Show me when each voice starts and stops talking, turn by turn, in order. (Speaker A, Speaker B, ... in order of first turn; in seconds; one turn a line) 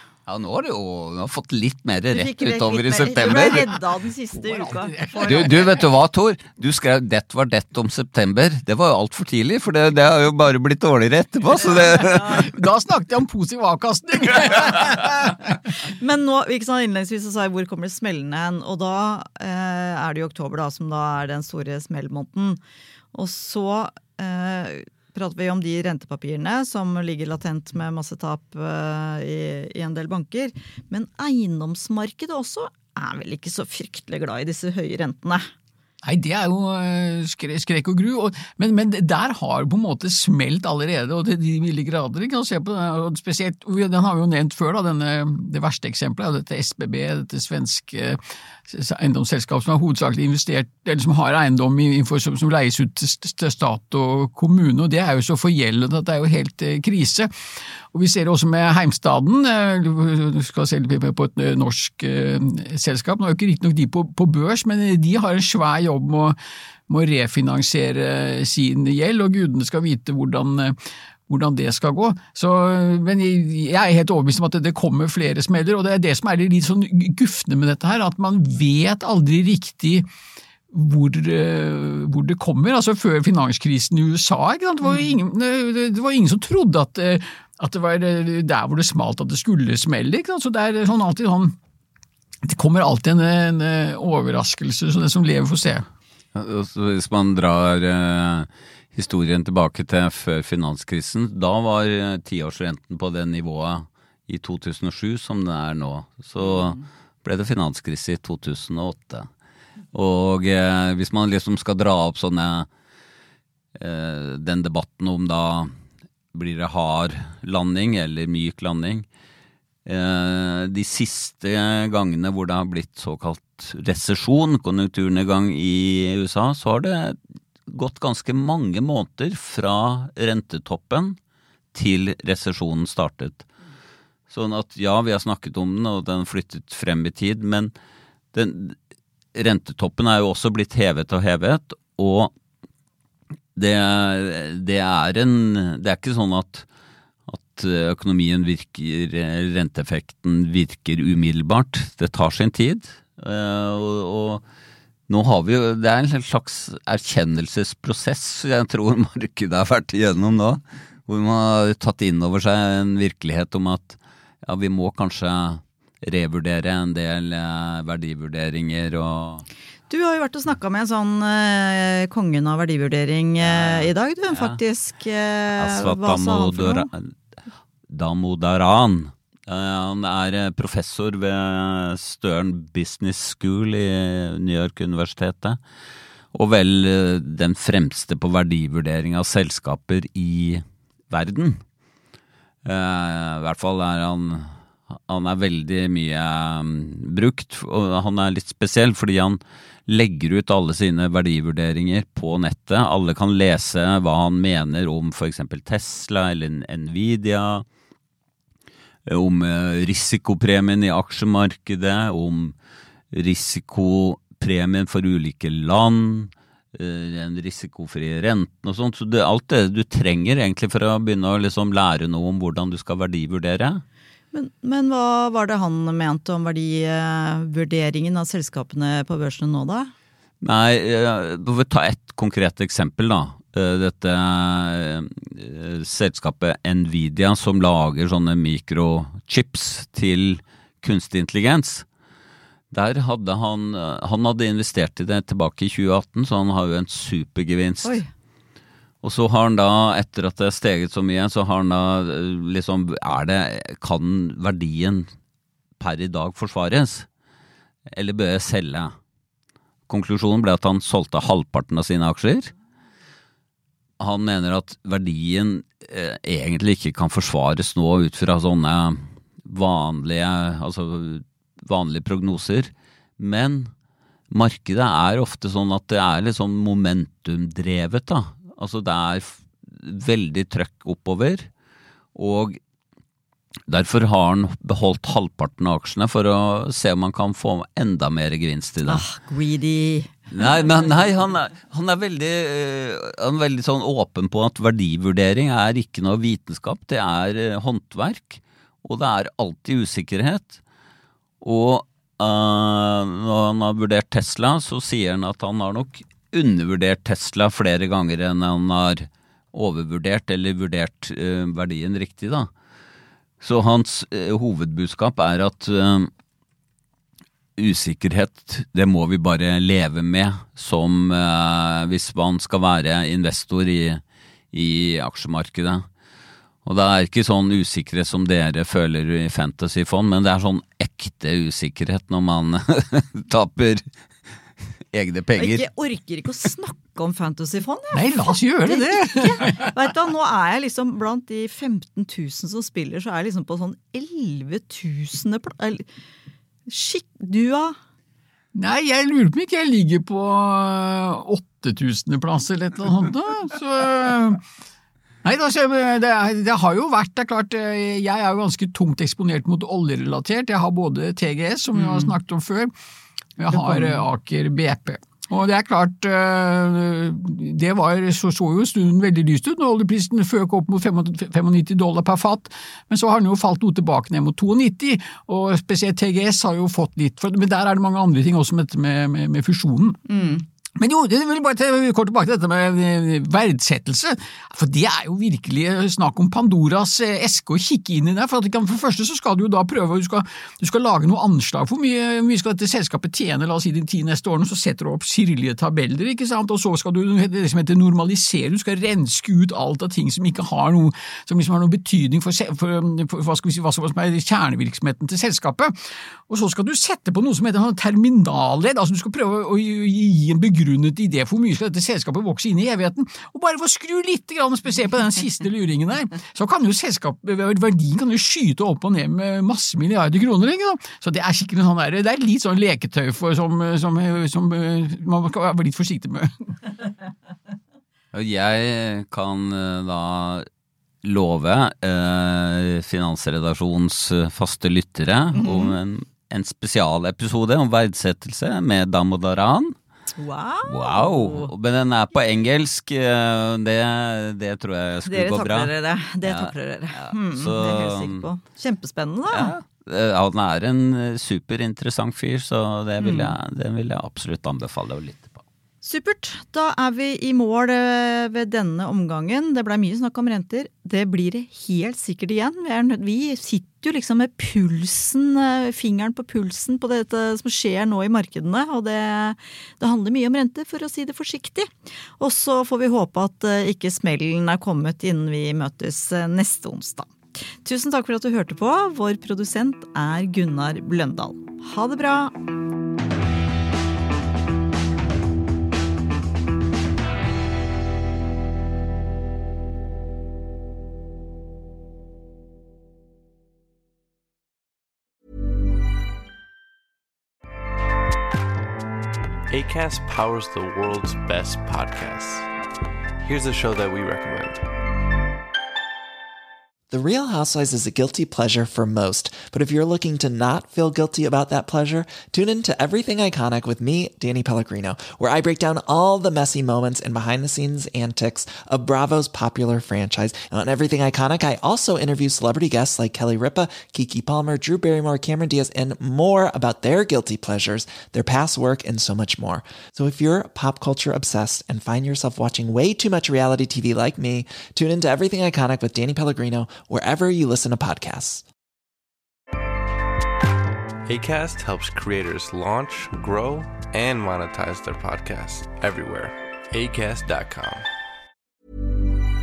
Speaker A: 0.3-3.7
Speaker B: 2.1-5.7
Speaker C: 4.4-5.7
Speaker A: 5.2-12.5
Speaker C: 12.0-15.5
Speaker B: 15.7-22.6
Speaker B: 23.1-35.5
Speaker C: 36.0-57.3
Speaker C: 57.9-66.4
Speaker C: 66.9-70.8
Speaker C: 71.3-80.1
Speaker C: 80.7-91.6
Speaker C: 92.4-95.9
Speaker A: 96.3-109.3
Speaker A: 109.9-112.7
Speaker A: 113.8-115.7
Speaker A: 116.3-119.1
Speaker A: 119.9-131.2
Speaker A: 131.7-133.5
Speaker A: 134.3-137.7
Speaker A: 138.3-138.8
Speaker A: 139.3-142.3
Speaker A: 143.6-146.7
Speaker A: 147.3-154.4
Speaker A: 155.1-169.5
Speaker B: 169.9-176.9
Speaker A: 173.4-174.6
Speaker A: 175.6-177.1
Speaker A: 177.9-185.6
Speaker A: 186.3-191.6
Speaker A: 192.7-194.5
Speaker A: 195.1-207.7
Speaker A: 209.1-212.6
Speaker A: 213.1-223.8
Speaker B: 224.3-229.9
Speaker A: 230.4-241.8
Speaker A: 242.7-248.0
Speaker A: 249.0-255.1
Speaker A: 255.8-257.1
Speaker A: 257.9-258.9
Speaker A: 259.9-262.5
Speaker A: 264.0-273.7
Speaker A: 274.3-281.5
Speaker A: 282.1-282.6
Speaker A: 283.7-289.1
Speaker B: 288.9-290.1
Speaker A: 290.3-300.6
Speaker A: 301.4-312.5
Speaker A: 313.4-316.1
Speaker A: 317.6-325.9
Speaker A: 326.6-333.9
Speaker A: 334.9-335.6
Speaker B: 335.4-345.9
Speaker C: 337.9-339.7
Speaker B: 346.7-347.8
Speaker C: 348.6-354.4
Speaker C: 355.2-362.7
Speaker B: 361.8-362.1
Speaker C: 363.4-380.0
Speaker B: 363.5-364.0
Speaker B: 380.1-380.4
Speaker C: 380.8-405.7
Speaker C: 406.3-426.5
Speaker A: 428.1-430.5
Speaker A: 431.0-439.8
Speaker B: 435.4-435.8
Speaker B: 440.1-441.5
Speaker A: 440.6-448.3
Speaker B: 445.1-449.6
Speaker A: 449.3-455.4
Speaker B: 453.0-453.4
Speaker B: 455.8-482.3
Speaker D: 499.5-502.5
Speaker D: 503.2-504.6
Speaker E: 506.9-538.5
Speaker D: 541.1-547.9